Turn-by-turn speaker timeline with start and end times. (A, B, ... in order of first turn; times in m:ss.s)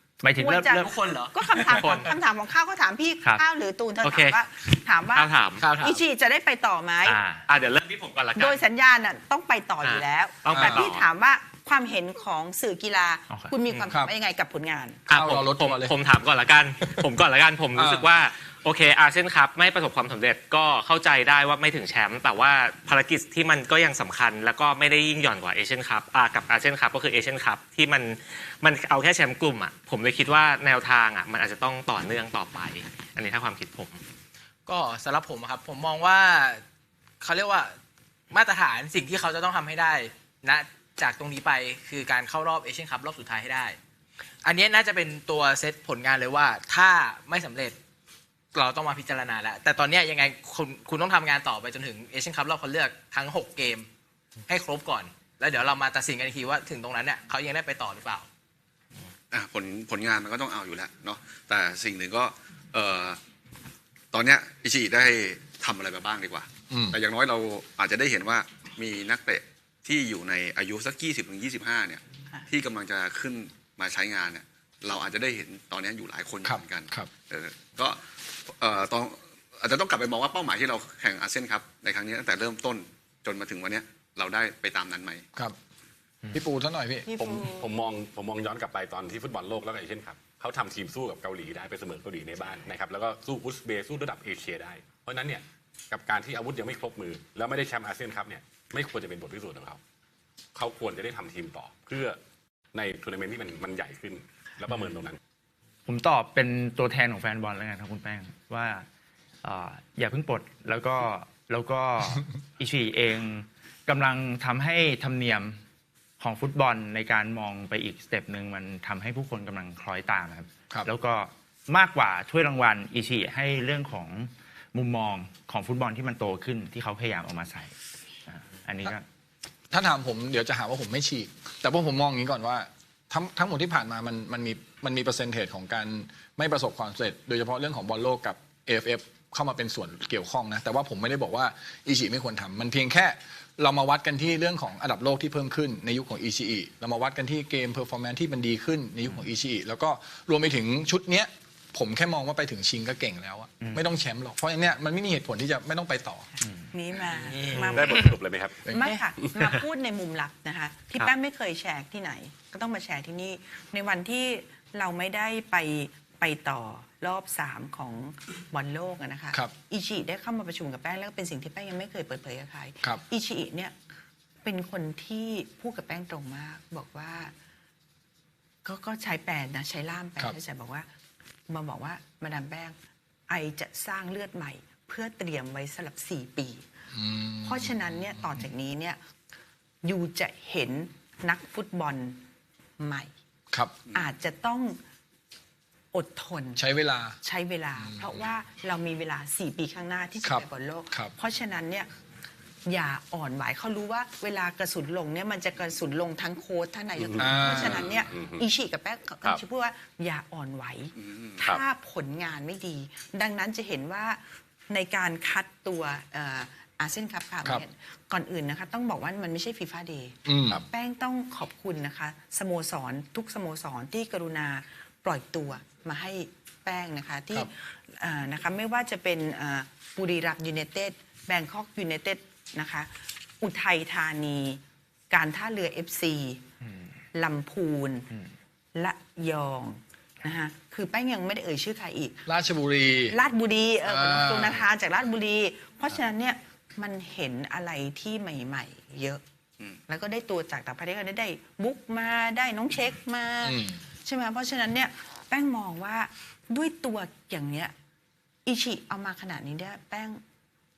0:00.2-0:00.9 A
0:00.3-0:07.2 B
0:00.7-0:02.0 C
0:01.7-0:02.1 D
0:04.0-0:04.4 D
0:05.1-0:05.6 D
0:05.6-0:06.0 C
0:07.0-0:07.4 A
0:07.5-0:08.6 D
0:08.4-0:15.0 B
0:09.8-0:11.0 D
0:10.5-0:10.9 E
0:15.1-0:34.0 D
0:15.1-0:15.9 E
0:17.7-0:18.1 E
0:34.6-0:36.6 C
0:37.2-0:37.7 C
0:38.3-0:43.8 C
0:44.4-0:47.8 C
0:48.5-0:53.9 C
0:54.5-0:58.2 C
0:59.3-1:03.2 F
1:04.1-1:25.2 F
1:06.7-1:07.0 E
1:16.4-1:17.1 E
1:26.3-1:27.1 E
1:27.0-1:27.7 B
1:27.2-1:39.8 G
1:40.5-1:42.2 G
1:42.7-1:45.2 G
1:45.8-1:48.8 A
1:49.4-1:55.6 A
1:56.2-2:07.7 A
2:08.3-2:09.0 A
2:09.7-2:36.3 E
2:36.7-2:38.1 B
2:37.1-2:38.1 C
2:37.5-2:39.6 G
2:38.6-2:38.9 E
2:38.7-2:53.7 B
2:54.4-2:57.3 B
2:58.6-3:00.9 B
3:01.5-3:02.8 B
3:03.3-3:06.6 B
3:06.9-3:08.4 E
3:07.4-3:09.0 B
3:09.8-3:12.2 B
3:12.8-3:13.1 B
3:13.9-3:14.8 B
3:15.9-3:16.6 B
3:16.6-3:17.2 E
3:17.2-3:21.9 B
3:17.8-3:18.2 E
3:20.2-3:21.1 E
3:22.6-3:56.4 B
3:27.0-3:28.5 G
3:27.2-3:27.8 E
3:31.0-3:31.5 F
3:40.2-3:40.6 E
3:57.1-3:58.1 B
3:58.7-4:02.2 B
4:02.3-4:03.1 E
4:03.1-4:09.2 B
4:03.8-4:04.6 E
4:09.9-4:17.7 B
4:13.4-4:13.8 E
4:18.4-4:20.2 B